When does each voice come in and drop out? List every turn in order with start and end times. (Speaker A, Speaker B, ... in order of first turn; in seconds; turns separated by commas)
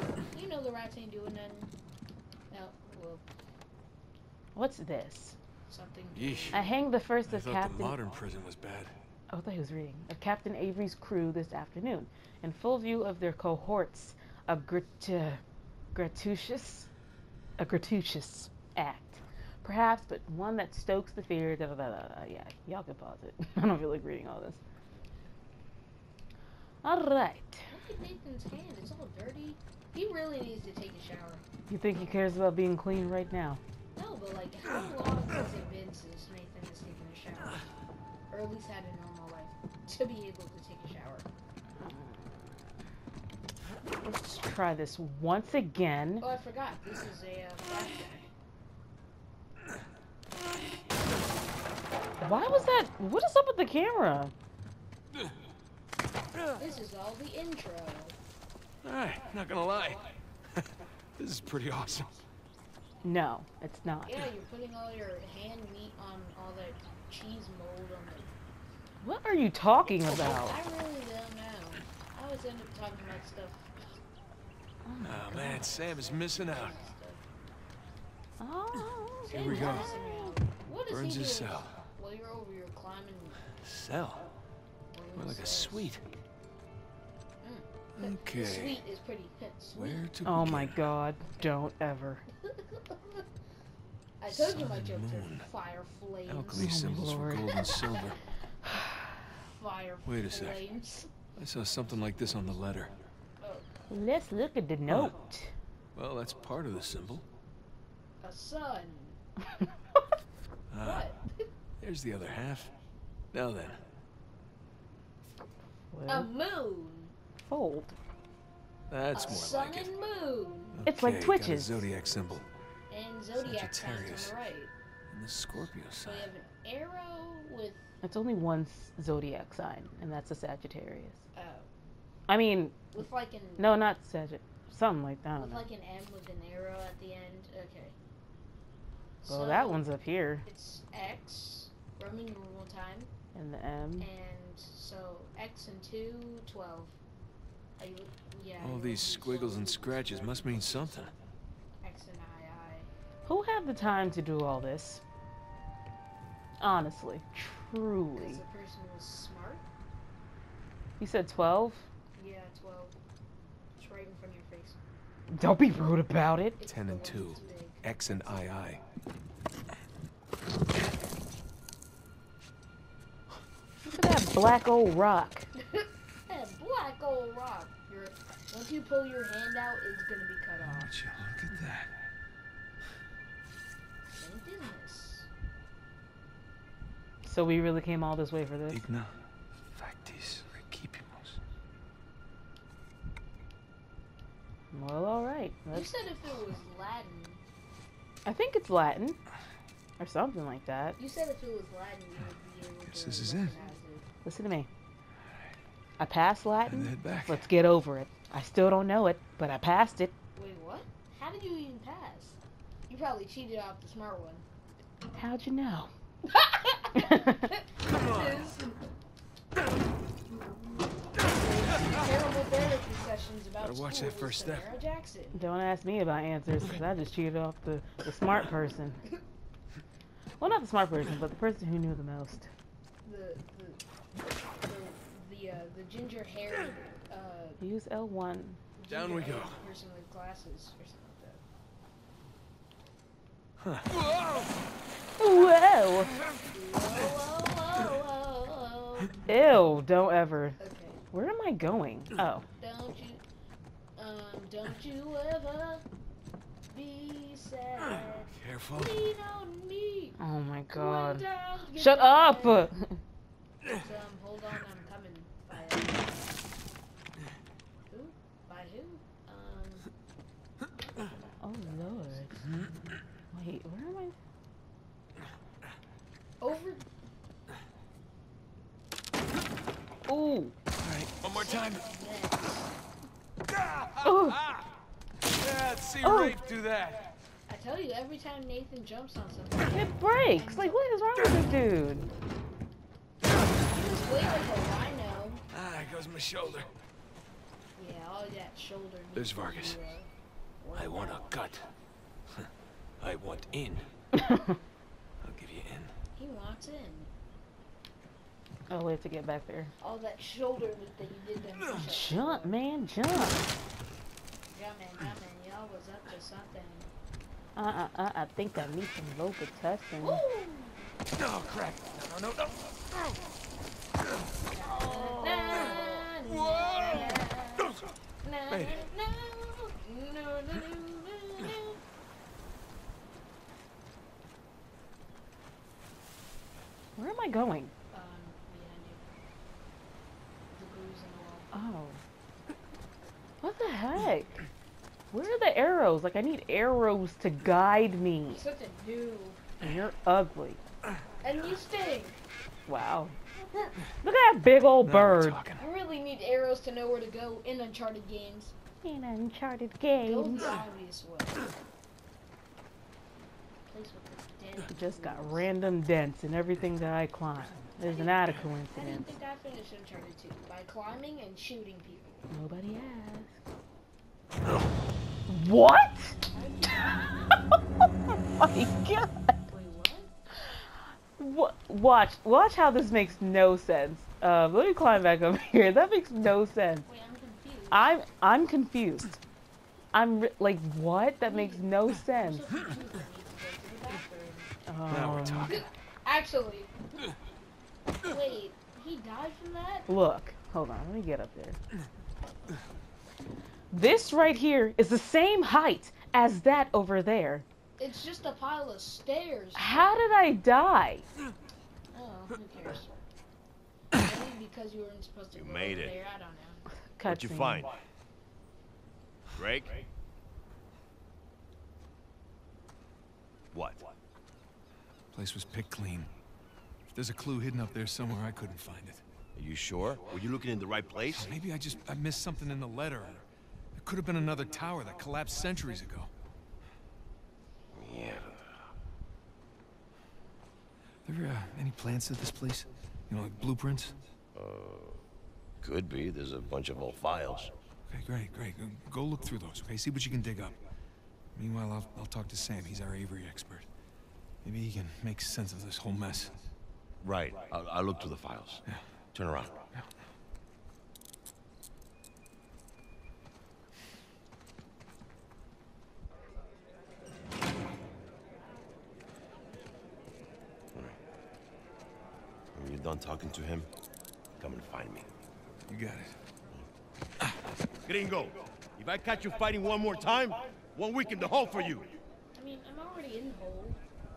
Speaker A: 0.3-1.7, Speaker A: 2.5-3.2, Speaker B: 4.5-5.3, Speaker A: 5.7-6.7, Speaker C: 6.1-6.7, Speaker B: 6.5-8.0, Speaker C: 7.2-8.9, Speaker B: 9.3-15.4, Speaker B: 15.9-16.9, Speaker B: 17.6-24.6, Speaker B: 26.8-27.7, Speaker A: 27.7-31.4, Speaker B: 31.7-33.6, Speaker A: 33.9-37.7, Speaker A: 38.3-41.3, Speaker B: 41.8-42.6, Speaker B: 44.0-46.3, Speaker A: 46.2-48.3, Speaker B: 52.2-54.3, Speaker A: 56.6-58.1, Speaker C: 58.8-60.0, Speaker C: 61.2-62.1, Speaker B: 63.0-64.2, Speaker A: 64.0-68.3, Speaker B: 69.0-70.6, Speaker A: 70.1-73.7, Speaker B: 74.8-75.6, Speaker C: 75.0-76.7, Speaker A: 75.8-77.2, Speaker B: 78.4-80.3, Speaker A: 79.3-83.4, Speaker C: 79.3-79.9, Speaker C: 80.9-81.7, Speaker C: 83.6-84.2, Speaker A: 84.9-86.0, Speaker C: 85.2-86.0, Speaker A: 87.4-90.0, Speaker C: 88.0-88.8, Speaker C: 89.7-90.8, Speaker B: 90.2-92.2, Speaker A: 92.4-93.2, Speaker A: 94.2-96.7, Speaker C: 94.3-95.5, Speaker C: 96.2-98.2, Speaker B: 96.5-97.7, Speaker A: 97.6-98.0, Speaker B: 98.6-99.2, Speaker A: 99.5-101.1, Speaker C: 100.0-100.6, Speaker C: 101.4-102.9, Speaker A: 103.4-103.7, Speaker B: 103.9-105.5, Speaker C: 104.9-105.1, Speaker C: 105.9-107.2, Speaker A: 108.2-109.2, Speaker C: 110.7-111.1, Speaker A: 110.8-111.4, Speaker C: 111.8-112.7, Speaker C: 113.3-113.8, Speaker B: 115.9-116.3, Speaker A: 116.1-117.1, Speaker B: 117.4-118.0, Speaker C: 118.9-119.9, Speaker A: 119.1-120.8, Speaker C: 120.7-122.5, Speaker B: 120.8-121.8, Speaker A: 122.9-124.7, Speaker C: 123.4-124.3, Speaker C: 125.1-126.3, Speaker A: 126.0-127.8, Speaker B: 128.0-131.2, Speaker A: 131.3-131.7, Speaker B: 132.3-132.9, Speaker A: 132.9-133.7, Speaker B: 133.6-135.7, Speaker A: 135.4-137.9, Speaker A: 139.2-139.8, Speaker B: 139.3-140.4, Speaker A: 140.4-143.1, Speaker B: 143.3-144.1, Speaker A: 144.0-146.9, Speaker A: 147.8-150.2, Speaker C: 148.6-151.1, Speaker A: 151.8-152.9, Speaker B: 153.2-155.0, Speaker B: 156.6-158.4, Speaker A: 158.2-159.6, Speaker B: 161.0-161.9, Speaker A: 162.2-162.9, Speaker A: 163.8-164.8, Speaker B: 165.3-166.6, Speaker A: 166.6-167.8, Speaker C: 166.7-168.8, Speaker B: 173.8-175.5, Speaker A: 175.6-180.9, Speaker C: 180.6-181.9, Speaker A: 184.1-185.3, Speaker B: 187.2-188.8, Speaker C: 188.7-189.1, Speaker C: 189.7-191.4, Speaker B: 194.7-195.9, Speaker A: 195.7-197.4, Speaker B: 198.2-199.2, Speaker B: 200.0-201.0, Speaker A: 201.0-204.1, Speaker C: 202.8-203.5, Speaker B: 204.2-204.7, Speaker B: 206.0-210.1, Speaker C: 206.7-207.5, Speaker A: 210.3-212.4, Speaker A: 212.9-214.4, Speaker B: 215.1-215.9, Speaker A: 216.3-218.8, Speaker B: 216.9-217.5, Speaker A: 221.2-225.3, Speaker C: 223.6-224.7, Speaker B: 225.3-229.0, Speaker B: 230.4-232.5, Speaker A: 233.0-233.8, Speaker A: 234.6-237.6, Speaker B: 237.6-238.6, Speaker A: 238.8-241.4, Speaker C: 238.9-239.6, Speaker C: 243.6-243.9, Speaker B: 245.2-246.2, Speaker A: 246.5-249.2, Speaker B: 249.3-250.6, Speaker A: 250.6-251.0, Speaker B: 251.1-252.4, Speaker A: 252.6-253.2, Speaker A: 254.0-255.8, Speaker A: 256.7-260.2, Speaker C: 258.4-258.9, Speaker B: 260.2-261.2, Speaker A: 260.7-262.7, Speaker B: 261.8-263.0, Speaker A: 263.7-266.2, Speaker A: 267.9-269.9, Speaker B: 271.4-272.4, Speaker B: 273.3-274.1, Speaker A: 276.4-276.8, Speaker B: 280.1-280.5, Speaker C: 280.8-281.8, Speaker A: 281.3-282.7, Speaker B: 284.0-284.4, Speaker C: 285.3-287.0, Speaker B: 286.0-286.4, Speaker A: 287.5-290.8, Speaker B: 289.7-292.1, Speaker A: 293.6-295.4, Speaker C: 295.5-296.7, Speaker A: 297.8-300.1, Speaker C: 299.1-299.8, Speaker A: 300.6-301.2, Speaker C: 300.7-301.7, Speaker C: 303.0-303.9, Speaker B: 304.1-304.5, Speaker C: 305.2-305.9, Speaker A: 306.1-307.1, Speaker B: 308.7-309.7, Speaker A: 309.8-312.5, Speaker B: 311.7-313.5, Speaker A: 314.5-316.9, Speaker B: 317.6-320.2, Speaker A: 320.0-320.8, Speaker C: 321.2-322.6, Speaker A: 324.5-331.8, Speaker B: 324.9-325.7, Speaker C: 326.5-327.2, Speaker C: 328.5-328.8, Speaker B: 337.0-337.7, Speaker A: 337.9-339.1, Speaker A: 340.5-341.5, Speaker B: 341.5-342.0, Speaker B: 343.4-344.4, Speaker B: 345.1-348.4, Speaker A: 348.3-349.4, Speaker B: 349.6-350.6, Speaker A: 351.2-352.2, Speaker B: 352.7-353.2, Speaker B: 354.0-355.4, Speaker C: 354.8-355.6, Speaker A: 355.6-358.5, Speaker B: 358.8-360.5, Speaker A: 360.0-361.5, Speaker A: 363.6-365.5, Speaker B: 364.7-369.1, Speaker A: 367.8-372.2, Speaker B: 372.3-373.3, Speaker B: 375.3-376.2, Speaker A: 376.3-377.4, Speaker B: 378.4-379.3, Speaker A: 379.5-380.1, Speaker B: 380.4-386.9, Speaker A: 386.9-387.9, Speaker B: 387.7-389.2, Speaker B: 389.9-392.5, Speaker A: 391.2-394.5, Speaker B: 394.7-395.6, Speaker C: 394.9-395.6, Speaker A: 395.4-396.7, Speaker A: 398.1-399.9, Speaker B: 399.9-401.6, Speaker B: 403.7-407.4, Speaker A: 407.8-410.0, Speaker B: 409.6-411.1, Speaker A: 411.9-412.9, Speaker A: 413.9-416.6, Speaker D: 415.3-416.0, Speaker B: 416.9-417.6, Speaker D: 417.1-417.7, Speaker D: 419.3-419.8, Speaker D: 423.5-423.9, Speaker C: 425.1-426.1, Speaker C: 426.9-429.0, Speaker D: 429.3-431.3, Speaker C: 431.1-433.2, Speaker C: 433.8-436.1, Speaker D: 437.7-438.7, Speaker C: 441.0-444.0, Speaker D: 444.3-445.0, Speaker D: 445.6-447.5, Speaker C: 447.9-450.6, Speaker C: 451.3-453.7, Speaker C: 454.4-456.3, Speaker D: 457.0-459.5, Speaker D: 472.5-473.7, Speaker D: 474.4-475.1, Speaker C: 475.7-476.2, Speaker D: 477.9-481.9, Speaker A: 482.3-483.8